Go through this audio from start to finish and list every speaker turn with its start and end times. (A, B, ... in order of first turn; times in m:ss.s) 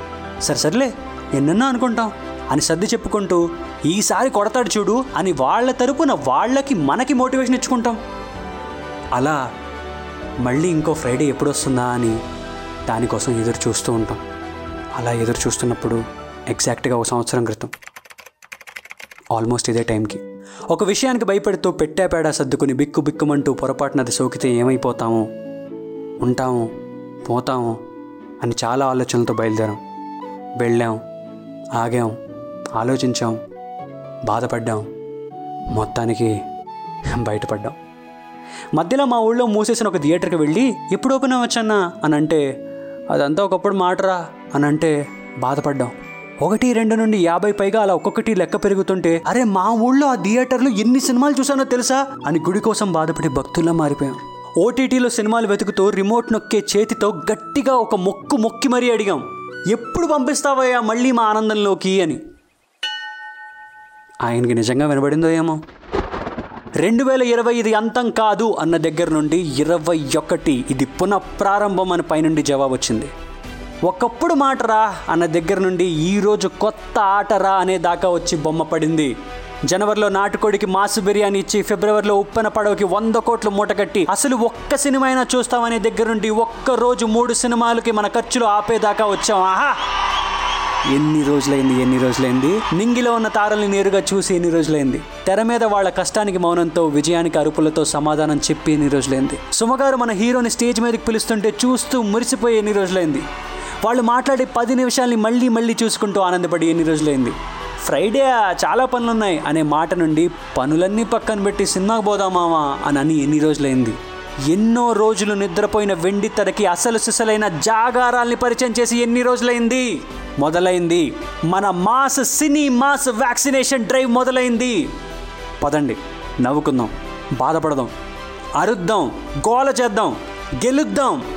0:00.4-0:08.0 A
0:09.1-0:09.4 A
0:10.4-0:12.2 A
0:12.9-0:14.2 A
0:15.0-0:17.7 A
0:19.3-0:25.2 A
0:26.2-0:26.7 A
0:27.2-0:27.8 A
0:28.4-0:29.8 A
0:30.6-0:31.0 A
0:31.8-0:32.1 A
0:32.8-0:33.4 A
0:34.3-0:34.8 A
0:35.7-0:36.3 A
0:37.2-0:37.8 A
0:38.8-0:42.4 A
0:43.1-1:02.2 A
1:04.2-1:05.6 A
1:06.8-1:13.1 A
1:13.8-1:19.1 A
1:19.7-1:29.8 A
1:30.9-1:43.2 A
1:43.8-1:54.0 A
1:54.5-2:04.8 A
2:05.6-2:07.9 A
2:08.6-2:11.2 A